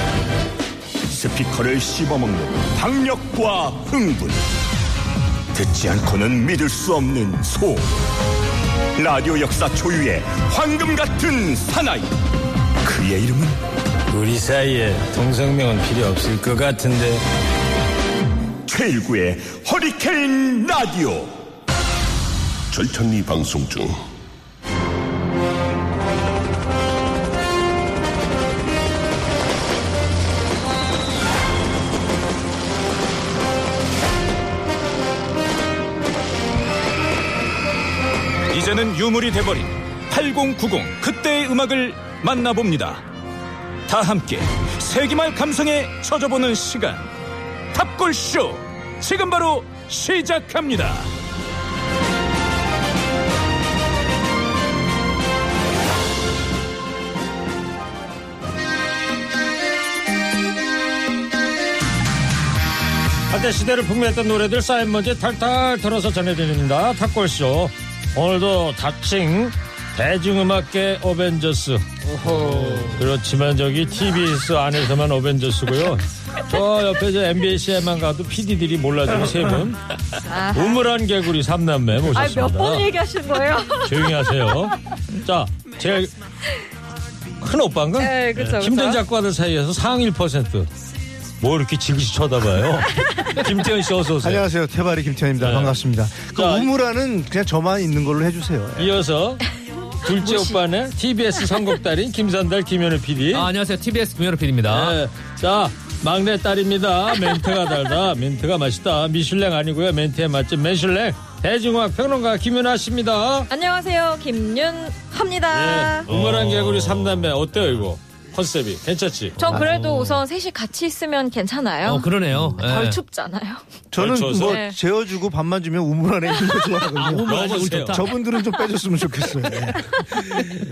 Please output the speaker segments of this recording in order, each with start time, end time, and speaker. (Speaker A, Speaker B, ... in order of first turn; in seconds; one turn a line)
Speaker A: 1.1-4.4
Speaker A: 5.5-7.9
Speaker A: 8.9-12.1
Speaker A: 12.8-13.6
Speaker B: 14.1-17.2
Speaker A: 18.6-21.3
Speaker A: 22.7-24.0
Speaker C: 38.5-43.0
Speaker C: 43.9-47.0
Speaker C: 47.7-51.1
Speaker B: 63.3-79.9
Speaker D: 72.3-72.8
Speaker E: 80.2-80.9
Speaker B: 80.5-82.9
Speaker E: 82.1-84.5
Speaker B: 83.8-86.1
Speaker B: 87.4-90.7
Speaker E: 88.0-89.0
Speaker B: 91.4-94.5
Speaker F: 94.2-98.9
Speaker B: 95.4-95.8
Speaker B: 96.3-96.7
Speaker B: 98.8-99.4
Speaker B: 100.0-103.5
Speaker E: 100.1-100.6
Speaker D: 103.3-105.0
Speaker B: 104.7-113.5
Speaker E: 107.1-107.5
Speaker E: 113.5-116.1
Speaker B: 115.5-119.3
Speaker D: 116.1-117.8
Speaker D: 119.3-120.2
Speaker E: 119.4-123.6
Speaker D: 121.8-123.0
Speaker F: 123.9-130.0
Speaker B: 124.0-124.6
Speaker E: 124.4-124.8
Speaker B: 127.0-128.0
Speaker D: 127.1-128.1